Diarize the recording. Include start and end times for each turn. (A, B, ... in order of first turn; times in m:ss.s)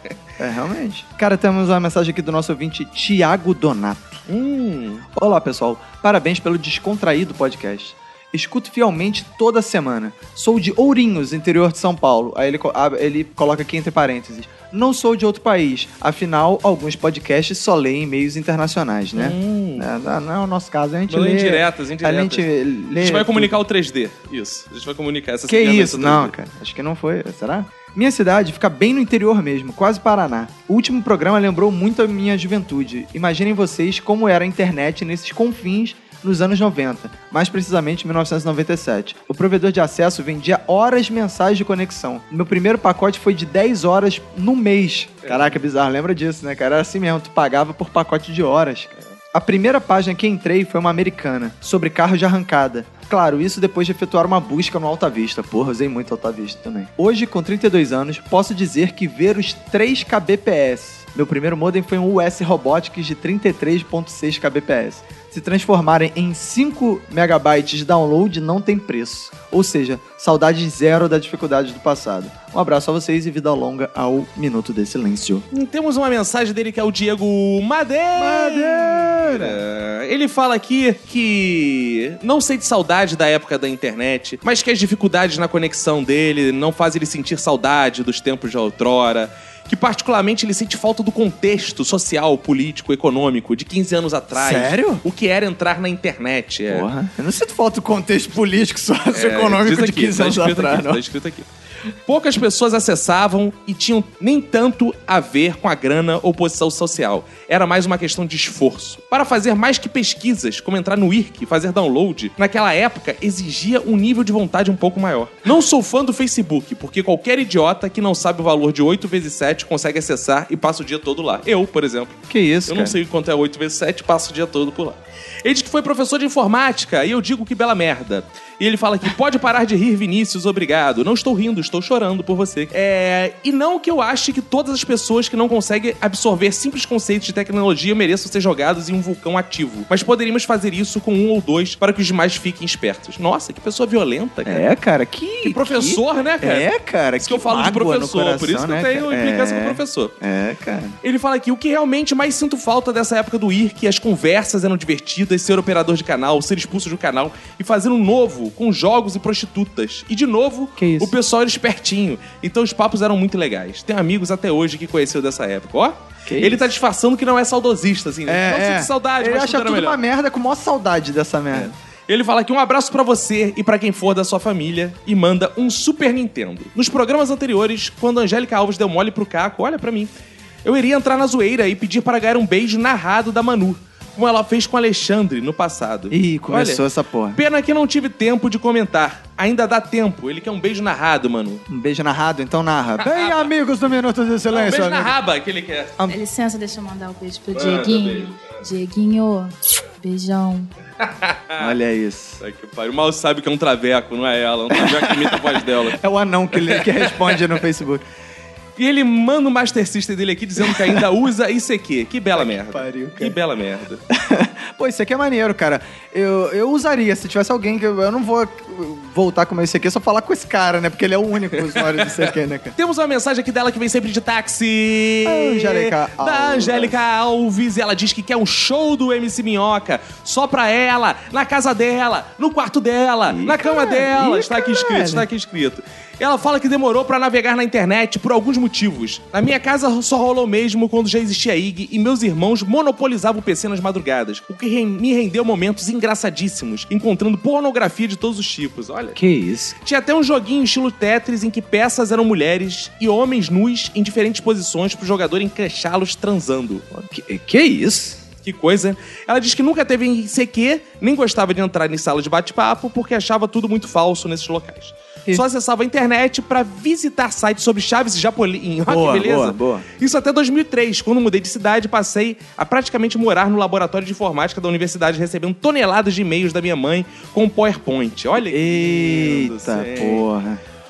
0:00.4-0:04.2 A
0:04.3-0:05.1 B
0:05.1-0:23.5 A
0:19.1-0:19.9 B
0:21.1-0:26.3 B
0:25.5-1:15.4 A
0:45.2-0:45.6 B
1:15.5-1:36.9 B
1:18.2-1:19.6 A
1:34.3-1:35.0 A
1:36.7-1:41.0 A
1:39.1-1:41.5 B
1:42.0-2:24.7 B
2:02.3-2:03.0 A
2:24.4-2:31.0 A
2:25.4-2:30.1 B
2:31.0-2:50.0 B
2:40.8-2:41.1 A
2:46.2-2:46.6 A
2:48.3-2:51.7 A
2:51.5-3:00.1 B
3:00.6-3:06.8 B
3:06.1-3:07.4 A
3:07.3-3:11.6 B
3:11.7-3:15.1 A
3:13.0-3:13.5 B
3:14.5-3:15.9 B
3:16.1-3:20.7 C
3:17.5-3:18.5 B
3:21.0-3:21.7 B
3:21.6-3:22.4 A
3:22.4-3:26.0 B
3:24.7-3:28.0 A
3:26.6-3:27.4 B
3:28.8-3:34.0 B
3:32.4-3:33.4 A
3:34.1-3:42.7 A
3:41.7-3:42.1 B
3:42.8-4:09.2 B
3:45.2-3:47.0 A
3:53.3-3:55.2 A
4:09.2-4:09.8 A
4:09.8-4:16.8 B
4:16.9-4:18.2 A
4:18.4-4:40.2 B
4:28.8-4:29.8 A
4:38.4-4:40.6 A